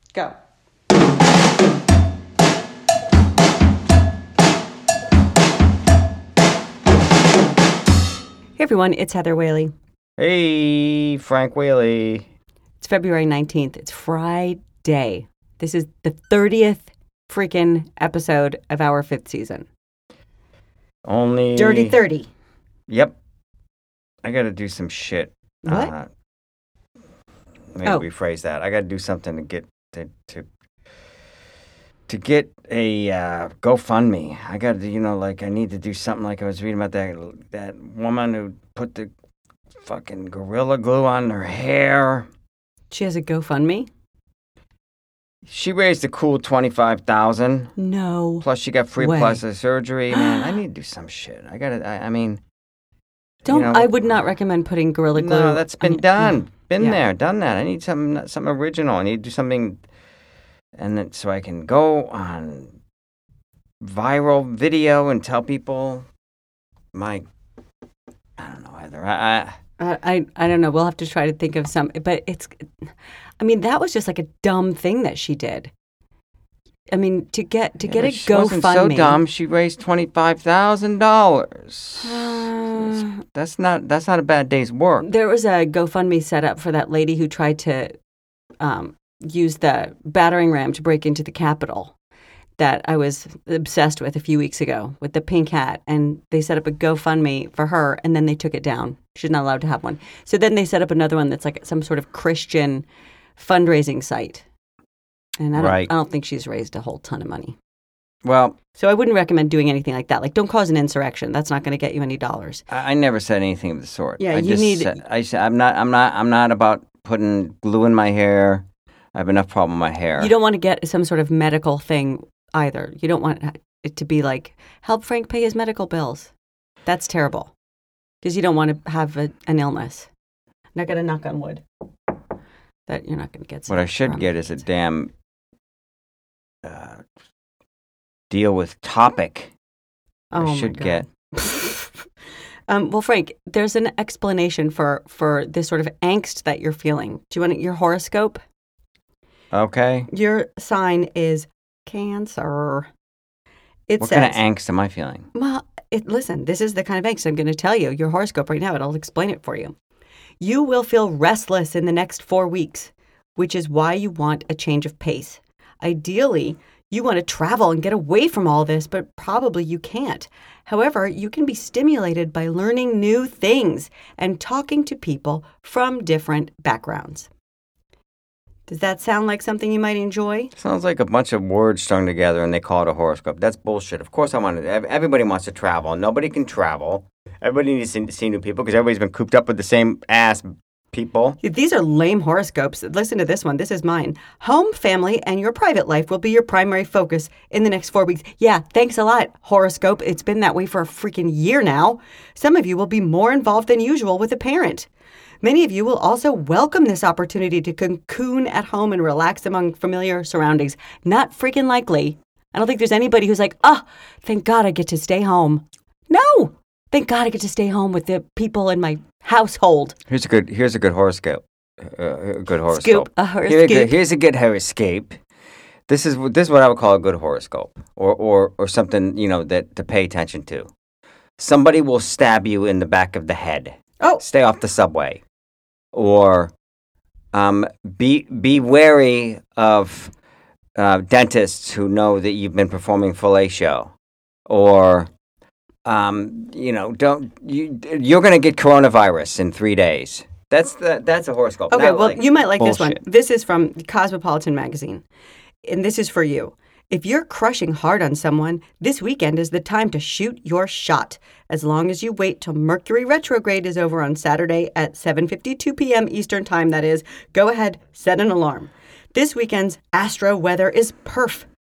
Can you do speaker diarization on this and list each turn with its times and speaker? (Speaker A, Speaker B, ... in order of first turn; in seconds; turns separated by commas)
Speaker A: 8.6-9.7, Speaker B: 10.2-12.3, Speaker A: 12.8-19.7, Speaker B: 21.1-22.0, Speaker A: 21.6-22.3, Speaker B: 22.9-23.2, Speaker B: 24.2-26.1, Speaker A: 25.6-25.9, Speaker B: 27.8-30.5, Speaker B: 32.1-39.1, Speaker B: 39.8-42.3, Speaker A: 42.9-43.9, Speaker B: 45.5-47.7, Speaker A: 47.8-48.5, Speaker B: 48.4-52.4, Speaker A: 49.0-49.4, Speaker A: 50.1-50.5, Speaker A: 53.5-57.0, Speaker B: 53.5-54.3, Speaker B: 55.2-59.8, Speaker B: 60.8-62.8, Speaker B: 63.8-66.0, Speaker B: 66.9-67.2, Speaker B: 68.4-69.5, Speaker A: 69.8-72.7, Speaker A: 73.4-75.7, Speaker A: 76.9-79.2, Speaker B: 77.8-85.0, Speaker A: 82.0-83.1, Speaker A: 85.0-87.9, Speaker A: 88.6-91.9, Speaker A: 92.6-102.8, Speaker A: 103.4-104.4, Speaker A: 105.4-107.5, Speaker B: 105.6-105.9, Speaker B: 108.2-108.6, Speaker A: 108.7-112.6, Speaker B: 112.7-120.3, Speaker A: 114.2-115.0, Speaker A: 120.2-126.3, Speaker A: 126.8-127.5, Speaker A: 128.2-130.1, Speaker A: 130.8-131.6, Speaker A: 132.9-134.6, Speaker B: 133.7-135.1, Speaker B: 136.6-137.0, Speaker B: 138.3-139.5, Speaker A: 140.3-142.0, Speaker B: 140.4-141.0, Speaker A: 142.7-148.4, Speaker B: 149.5-150.1, Speaker A: 150.1-152.9, Speaker A: 153.9-154.4, Speaker B: 154.0-155.3, Speaker A: 155.3-159.7, Speaker A: 160.4-177.3, Speaker A: 178.7-180.5, Speaker B: 180.5-191.4, Speaker A: 191.4-204.9, Speaker A: 205.4-219.9, Speaker B: 220.1-225.2, Speaker A: 222.7-223.9, Speaker B: 225.9-230.7, Speaker B: 231.4-235.2, Speaker B: 235.9-236.5, Speaker B: 237.3-240.1, Speaker B: 240.8-243.9, Speaker B: 244.5-245.1, Speaker B: 245.8-253.0, Speaker A: 251.7-255.0, Speaker A: 255.6-271.5